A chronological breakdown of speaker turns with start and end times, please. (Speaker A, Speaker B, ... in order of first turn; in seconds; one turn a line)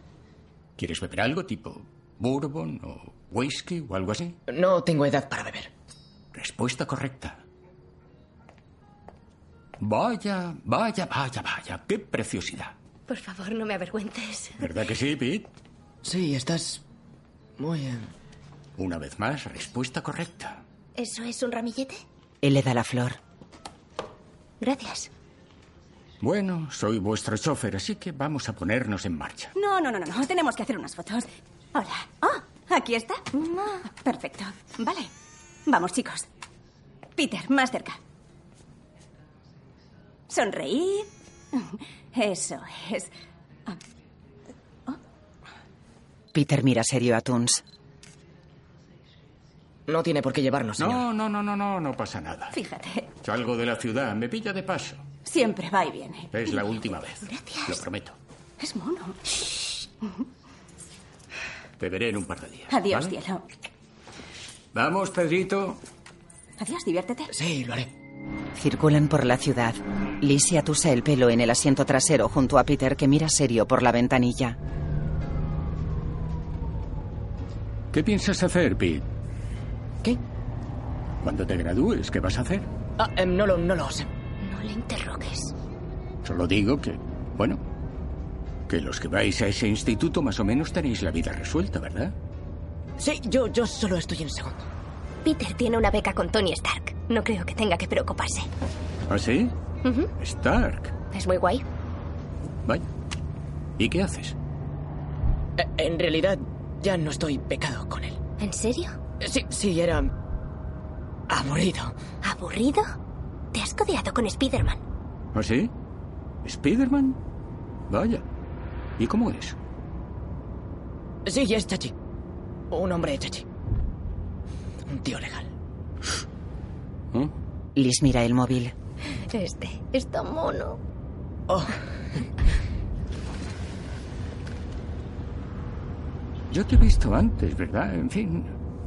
Speaker A: 0.8-4.3
Speaker B: 4.5-5.7
Speaker A: 6.3-7.4
Speaker A: 9.8-12.7
Speaker C: 13.1-14.6
Speaker A: 14.6-15.5
Speaker B: 16.0-16.8
Speaker B: 17.6-18.1
Speaker A: 18.8-20.6
Speaker C: 20.9-22.0
Speaker D: 22.4-23.2
Speaker C: 24.6-25.1
Speaker A: 26.2-29.5
Speaker E: 29.5-33.2
Speaker C: 33.4-33.7
Speaker E: 33.8-35.1
Speaker E: 35.7-36.3
Speaker E: 37.1-38.0
Speaker E: 40.3-43.1
Speaker D: 46.3-47.6
Speaker B: 49.9-51.0
Speaker A: 50.8-52.5
Speaker E: 52.5-53.1
Speaker A: 53.2-55.0
Speaker E: 55.2-56.6
Speaker A: 56.3-58.1
Speaker C: 57.2-57.8
Speaker E: 58.6-59.8
Speaker A: 61.8-63.1
Speaker E: 62.7-63.4
Speaker A: 64.7-65.8
Speaker E: 66.6-67.3
Speaker B: 67.3-67.9
Speaker D: 68.5-74.6
Speaker A: 77.9-79.0
Speaker A: 81.2-82.7
Speaker B: 83.0-84.1
Speaker C: 84.4-85.5
Speaker A: 86.2-87.6
Speaker A: 88.7-92.1
Speaker B: 93.0-94.6
Speaker C: 95.2-98.5
Speaker A: 99.1-99.5
Speaker C: 99.8-100.1
Speaker A: 100.2-100.9
Speaker C: 101.1-101.6
Speaker A: 103.8-104.3
Speaker B: 105.6-108.2
Speaker C: 108.4-109.0
Speaker B: 109.2-110.1
Speaker B: 111.3-111.9
Speaker C: 112.2-112.9
Speaker C: 113.5-114.8
Speaker A: 115.3-115.7
Speaker A: 116.4-117.2
Speaker A: 117.9-118.2
Speaker A: 119.0-119.6
Speaker B: 121.2-121.9
Speaker B: 122.7-123.4
Speaker B: 124.9-125.5
Speaker D: 127.7-128.7
Speaker C: 129.3-130.8
Speaker A: 136.5-138.5